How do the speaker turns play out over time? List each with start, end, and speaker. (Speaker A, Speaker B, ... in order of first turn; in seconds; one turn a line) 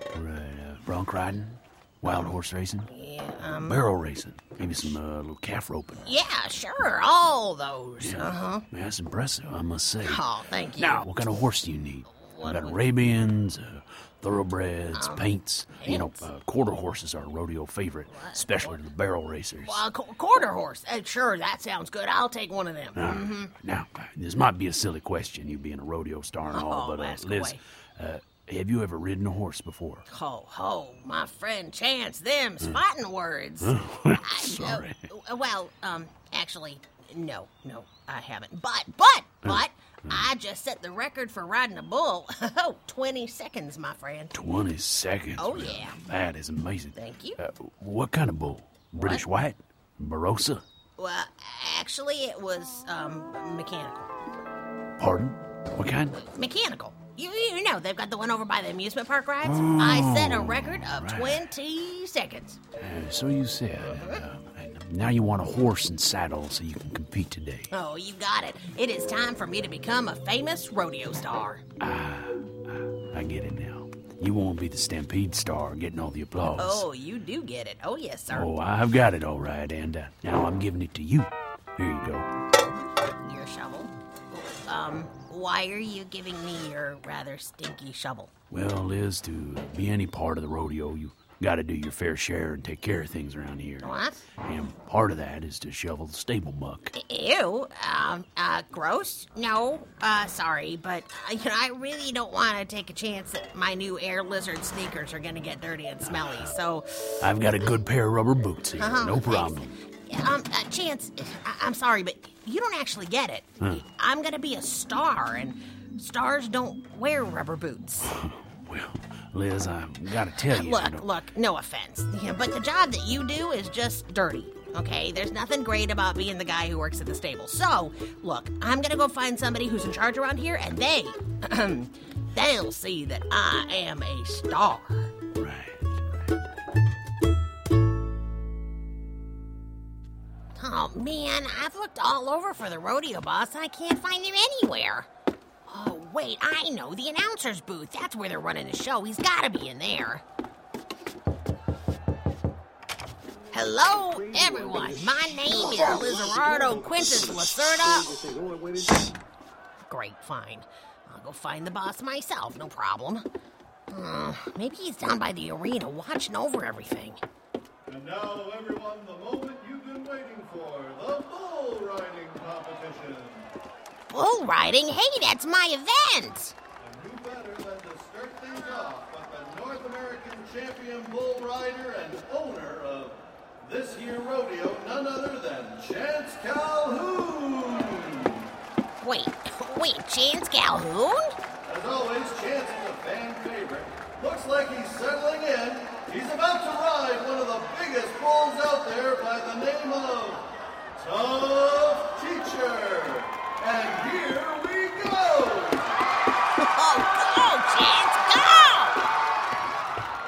Speaker A: 0.1-2.9
Speaker B: 2.9-3.9
Speaker A: 3.5-6.1
Speaker B: 6.0-8.7
Speaker A: 8.0-10.2
Speaker B: 10.0-11.1
Speaker A: 10.8-19.8
Speaker B: 12.2-12.8
Speaker B: 14.9-16.2
Speaker B: 18.1-18.7
Speaker B: 19.6-23.5
Speaker A: 22.9-30.1
Speaker B: 26.5-27.6
Speaker B: 30.1-44.4
Speaker A: 33.6-35.1
Speaker A: 39.4-40.3
Speaker A: 44.3-50.6
Speaker B: 45.4-46.0
Speaker B: 47.0-47.4
Speaker B: 49.0-49.2
Speaker B: 51.0-54.1
Speaker A: 55.0-56.2
Speaker B: 56.2-62.6
Speaker A: 59.4-61.4
Speaker A: 62.8-67.7
Speaker B: 63.8-64.2
Speaker B: 67.7-71.7
Speaker A: 71.8-76.9
Speaker B: 76.6-78.5
Speaker A: 78.3-82.3
Speaker B: 83.2-88.3
Speaker A: 88.5-96.9
Speaker B: 93.8-94.2
Speaker B: 97.0-107.8
Speaker A: 106.0-106.5
Speaker A: 107.2-109.7
Speaker B: 108.8-118.1
Speaker A: 118.0-121.1
Speaker B: 120.4-135.1
Speaker A: 135.3-135.9
Speaker B: 140.6-145.1
Speaker B: 145.7-150.2
Speaker B: 153.5-158.2
Speaker B: 159.9-163.3
Speaker B: 163.9-167.2
Speaker C: 167.9-173.5
Speaker B: 174.1-176.6
Speaker C: 176.8-188.5
Speaker B: 189.0-191.4
Speaker C: 191.7-206.0
Speaker B: 206.6-209.0